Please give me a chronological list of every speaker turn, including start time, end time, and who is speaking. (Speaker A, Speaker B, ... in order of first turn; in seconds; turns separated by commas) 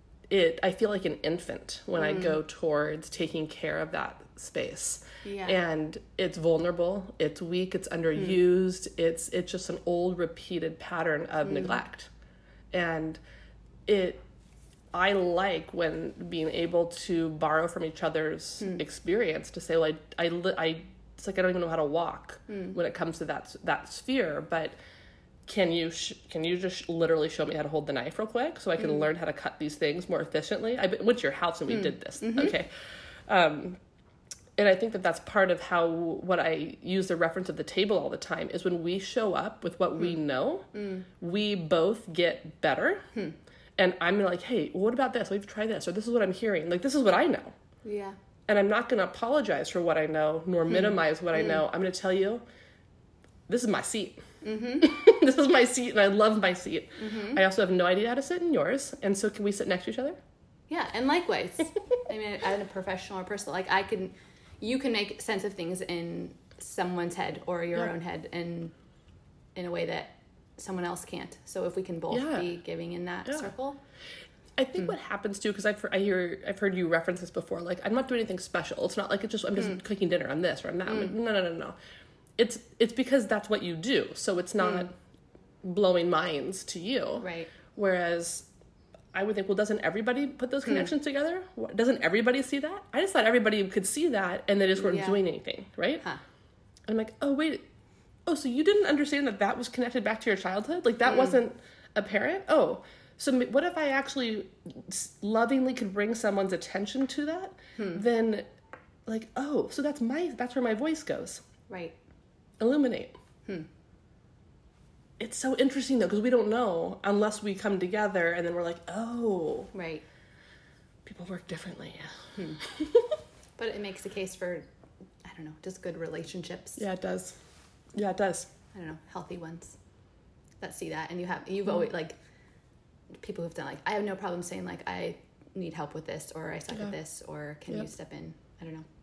Speaker A: 0.3-12.1, Speaker B: 2.0-2.4, Speaker B: 5.2-5.6, Speaker B: 11.4-11.8, Speaker A: 12.7-13.2, Speaker A: 13.9-14.2, Speaker A: 14.9-24.8, Speaker B: 22.5-22.8, Speaker A: 25.5-33.8, Speaker B: 31.7-32.5, Speaker A: 34.6-43.0, Speaker B: 40.7-41.1, Speaker A: 43.8-47.5, Speaker B: 47.8-48.2, Speaker A: 48.5-52.4, Speaker A: 53.5-54.2, Speaker B: 54.4-54.9, Speaker A: 54.8-60.2, Speaker B: 57.0-57.4, Speaker B: 60.7-68.7, Speaker B: 69.5-73.8, Speaker A: 72.1-72.5, Speaker A: 74.6-81.8, Speaker B: 80.9-81.1, Speaker A: 82.4-84.9, Speaker B: 84.6-84.9, Speaker A: 85.6-88.5, Speaker B: 87.2-87.5, Speaker A: 89.1-96.0, Speaker B: 94.8-95.2, Speaker A: 96.9-97.6, Speaker A: 98.3-108.5, Speaker B: 101.1-101.4, Speaker B: 107.8-108.0, Speaker A: 109.1-111.4, Speaker B: 111.7-112.0, Speaker A: 112.6-113.2, Speaker A: 115.2-119.7, Speaker B: 119.7-120.0, Speaker A: 121.0-123.2, Speaker B: 123.6-124.7, Speaker B: 125.2-126.8, Speaker A: 126.8-127.4, Speaker A: 127.9-128.5, Speaker B: 128.7-129.8, Speaker B: 130.6-132.2, Speaker B: 133.2-138.8